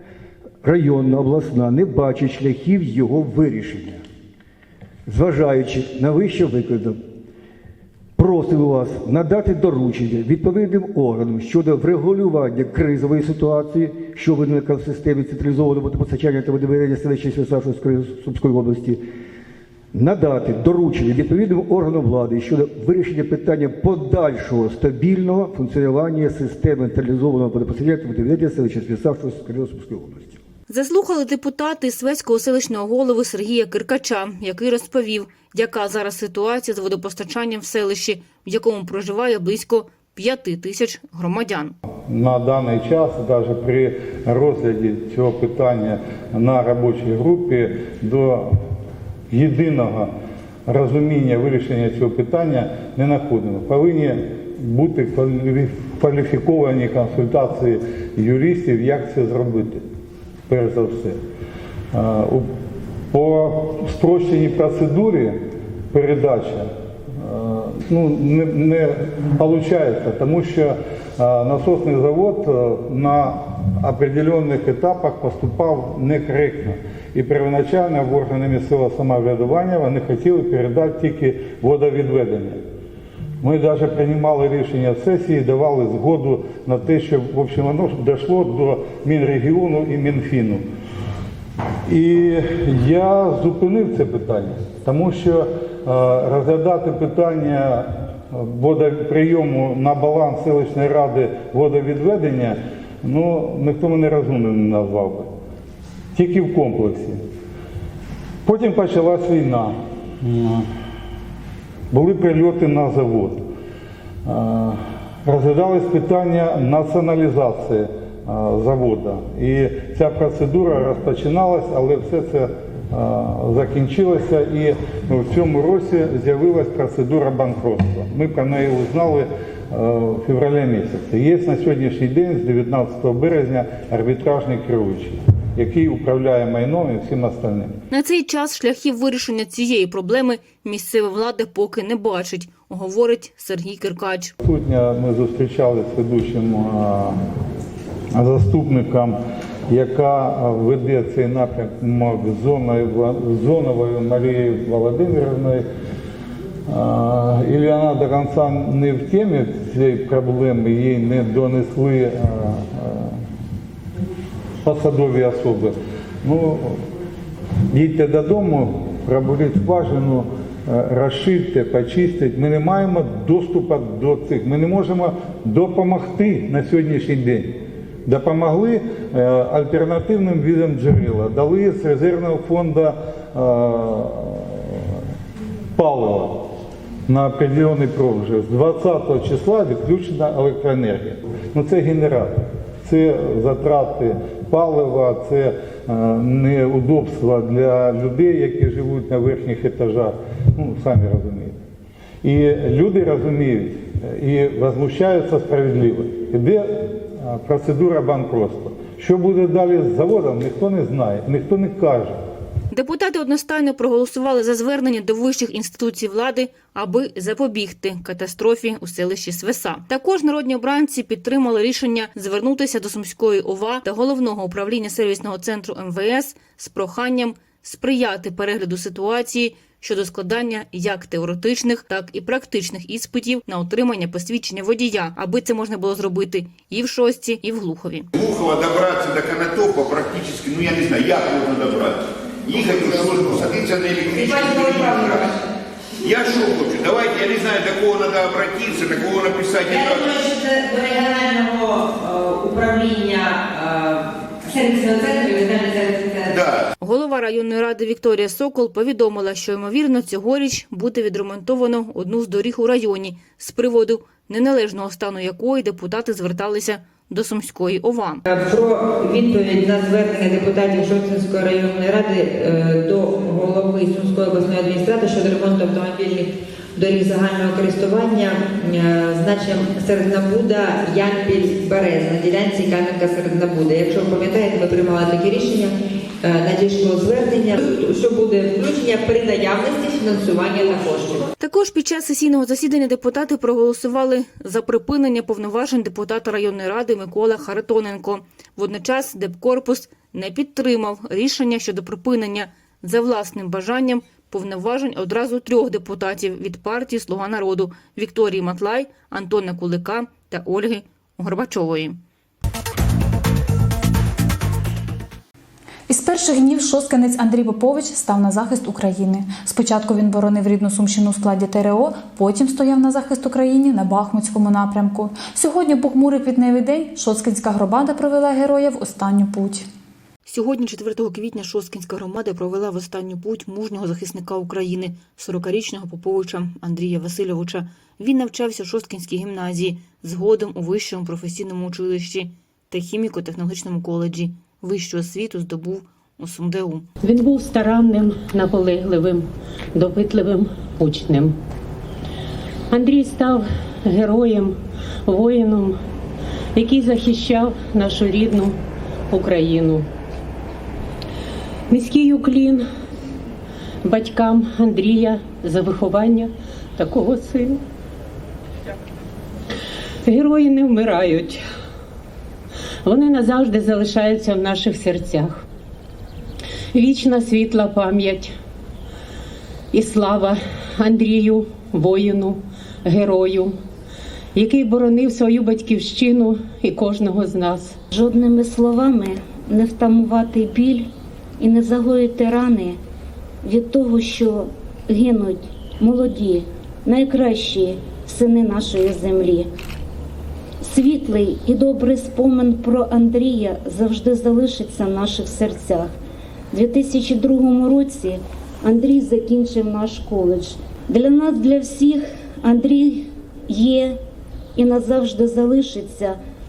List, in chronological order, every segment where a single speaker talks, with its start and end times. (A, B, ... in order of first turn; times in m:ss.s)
0:00.6-0:04.0 A
0:05.1-0:07.0 A
0:08.2-0:19.0 A
0:19.9-0:30.4 A
0:30.7-0:41.8 B
0:42.1-0:48.5 C
0:49.3-0:50.1 C
0:50.7-0:59.8 C
1:00.5-1:01.2 C
1:01.9-1:02.5 C
1:03.1-1:05.4 C
1:05.9-1:06.6 C
1:07.2-1:22.6 C
1:23.4-1:30.6 C
1:31.9-1:45.3 C
1:46.2-1:47.2 C
1:48.4-1:50.7 C
1:51.9-1:53.5 C
1:54.2-2:17.8 C
2:17.9-2:24.4 B
2:24.4-2:27.2 C
2:28.2-2:29.2 C
2:29.7-2:35.6 C
2:36.7-2:43.2 C
2:44.6-2:46.8 C
2:47.7-3:05.0 C
3:05.8-3:06.5 C
3:07.1-3:21.6 C
3:22.2-3:32.2 C
3:32.7-3:58.1 B
3:58.2-4:05.3 D
4:04.1-4:05.4 E
4:06.0-4:10.2 D
4:09.7-4:16.4 E
4:16.3-4:16.6 D
4:16.8-4:28.2 B
4:28.3-4:51.3 E
4:51.4-5:12.0 B
5:15.9-5:29.7 F
5:30.2-5:46.9 B
5:47.0-5:51.4 G
5:52.7-5:55.8 G
5:56.6-5:58.6 G
5:59.1-5:59.9 G
6:01.7-6:02.6 G
6:03.8-6:07.6 G
6:10.0-6:11.4 G
6:12.8-6:15.4 G
6:16.7-6:18.3 G
6:19.7-6:23.6 G
6:24.3-6:27.8 G
6:27.9-6:32.8 H
6:33.4-6:39.5 H
6:40.6-6:45.9 H
6:46.5-6:54.0 H
6:54.6-6:56.2 H